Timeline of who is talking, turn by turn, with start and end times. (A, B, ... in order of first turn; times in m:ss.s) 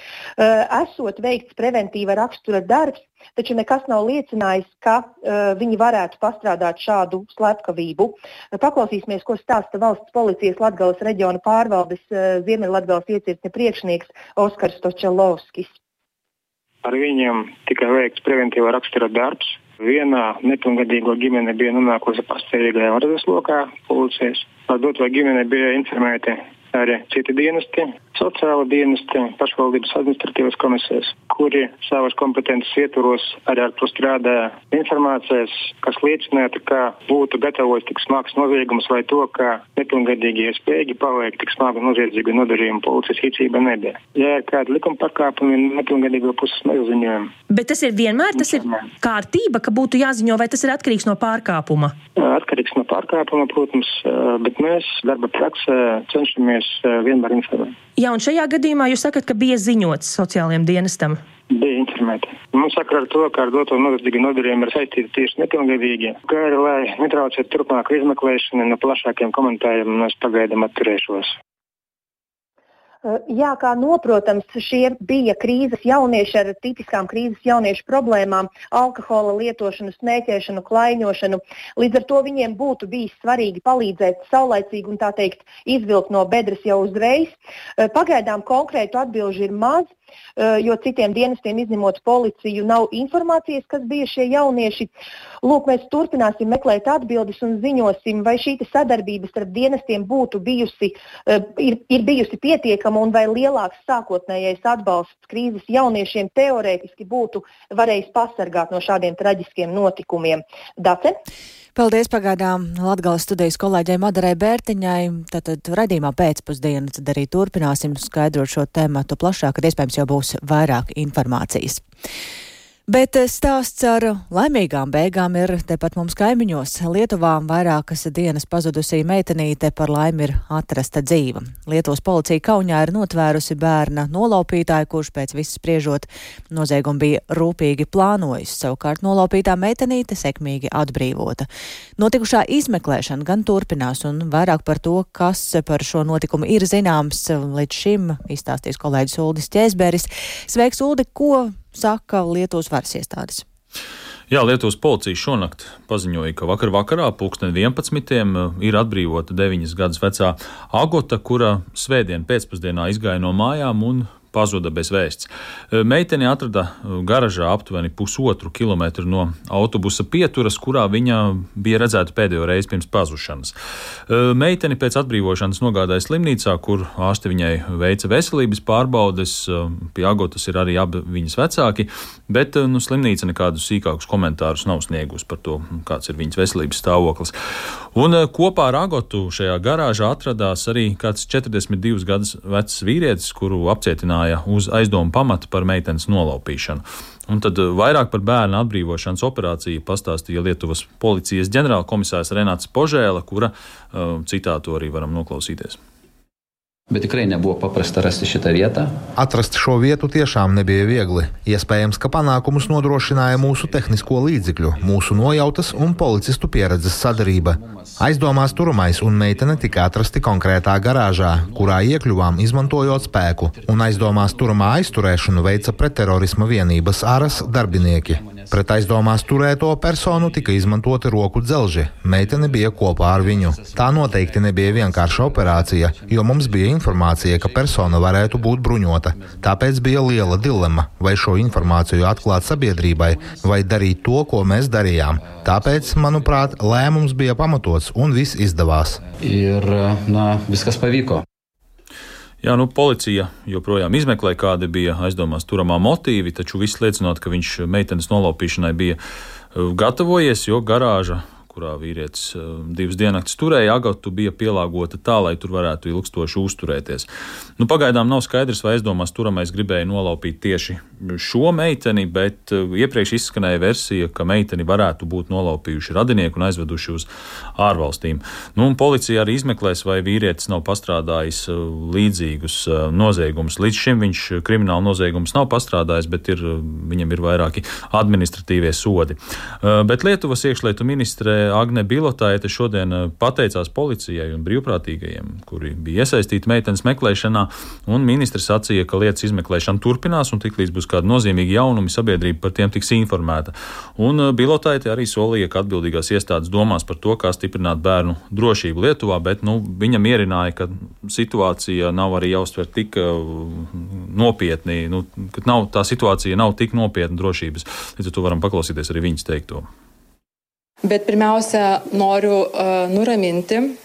0:00.4-0:15.7 A
0:16.8-0:47.3 B
0:47.5-0:52.0 C
0:52.2-0:57.8 B
0:58.0-1:01.2 C
1:01.5-1:11.4 B
1:13.0-1:34.9 A
1:35.4-1:51.2 A
1:51.8-2:01.8 D
2:02.9-2:33.4 D
2:34.3-2:53.5 E
2:54.1-3:07.3 E
3:08.0-3:25.8 E
3:26.9-3:28.9 F
3:29.2-4:09.0 G
3:30.7-3:31.3 F
3:32.6-4:07.7 F
4:08.9-4:11.2 F
4:12.4-4:19.0 E
4:19.5-5:19.7 E
5:20.9-5:23.5 H